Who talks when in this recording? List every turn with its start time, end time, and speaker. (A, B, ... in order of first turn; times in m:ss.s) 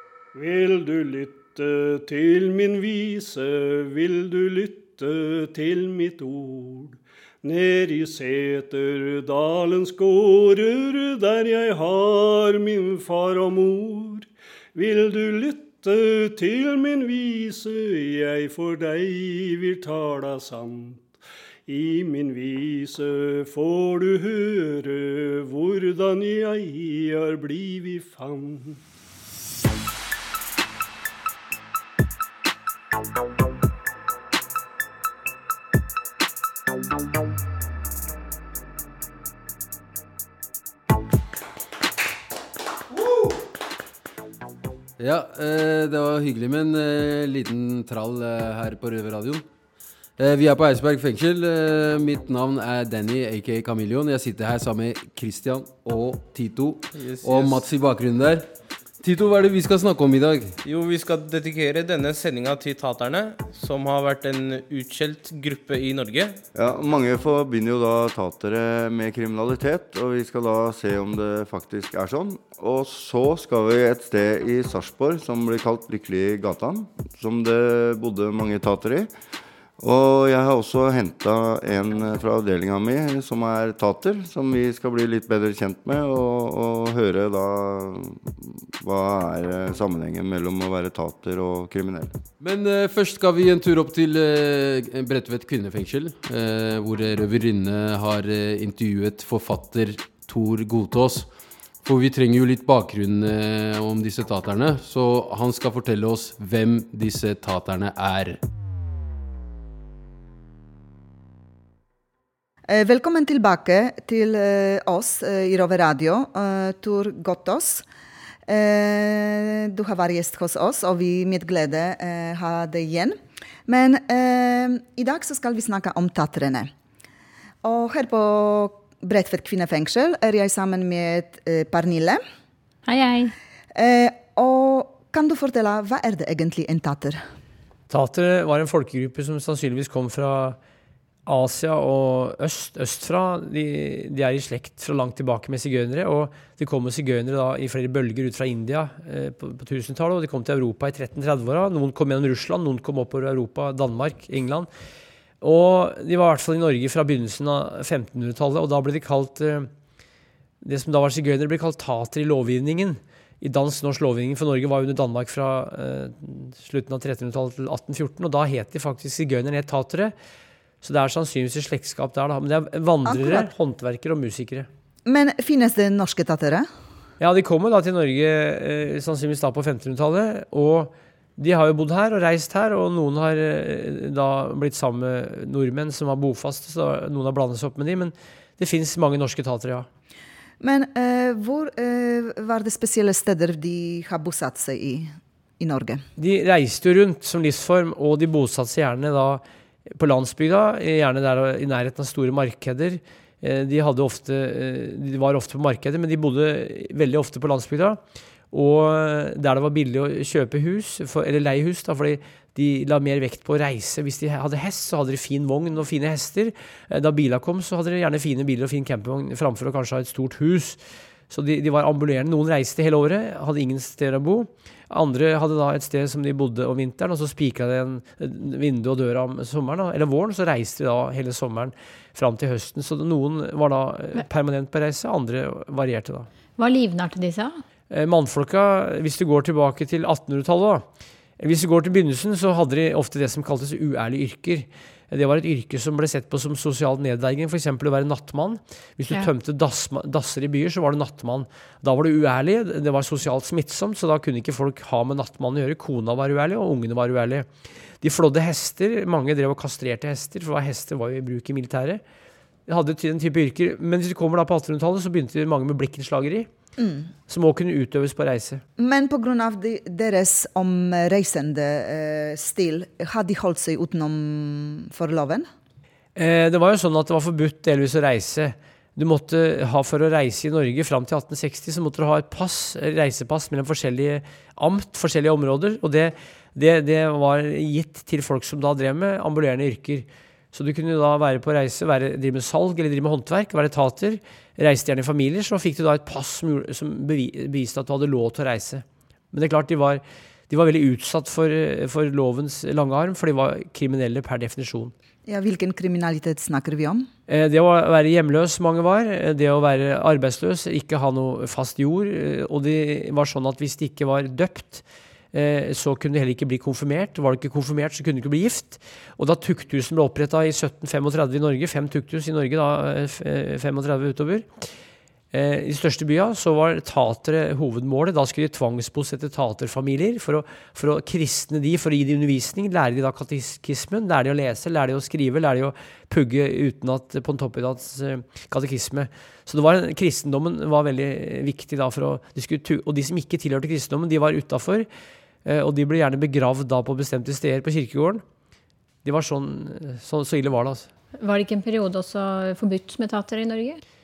0:00.3-0:21.1 A
0:21.7-0:28.8 A
0:45.0-0:49.4 B
0:50.2-0:58.4 B
0:56.9-0:57.6 C
0:59.0-1:00.6 B
1:00.6-1:06.4 C
1:06.5-1:19.1 D
1:19.8-1:32.1 D
1:32.4-1:41.3 B
1:41.8-1:48.4 B
1:52.7-1:57.8 E
1:58.5-2:06.7 E
2:07.6-2:12.2 E
2:12.9-2:13.3 F
2:13.7-2:17.2 E
2:17.9-2:20.6 G
2:21.2-2:34.7 G
2:35.4-2:39.7 G
2:40.6-2:50.1 G
2:50.8-2:54.7 G
2:53.0-2:53.5 E
2:55.0-2:56.7 E
2:57.2-3:09.9 G
3:10.6-3:16.0 E
3:16.2-3:19.4 G
3:20.0-3:28.0 G
3:28.5-3:40.8 G
3:41.3-3:56.3 G
3:56.6-3:57.6 F
3:57.9-4:00.8 G
4:01.4-4:17.5 G
4:18.0-4:22.0 G
4:22.7-4:26.5 G
4:26.8-4:27.1 E
4:27.3-4:28.6 G
4:28.8-4:35.5 E
4:36.2-5:04.9 G
5:05.2-5:07.1 E
5:07.3-5:24.5 G
5:25.3-5:44.9 G
5:45.4-5:48.2 G
5:49.0-5:50.9 G
5:51.2-5:53.8 F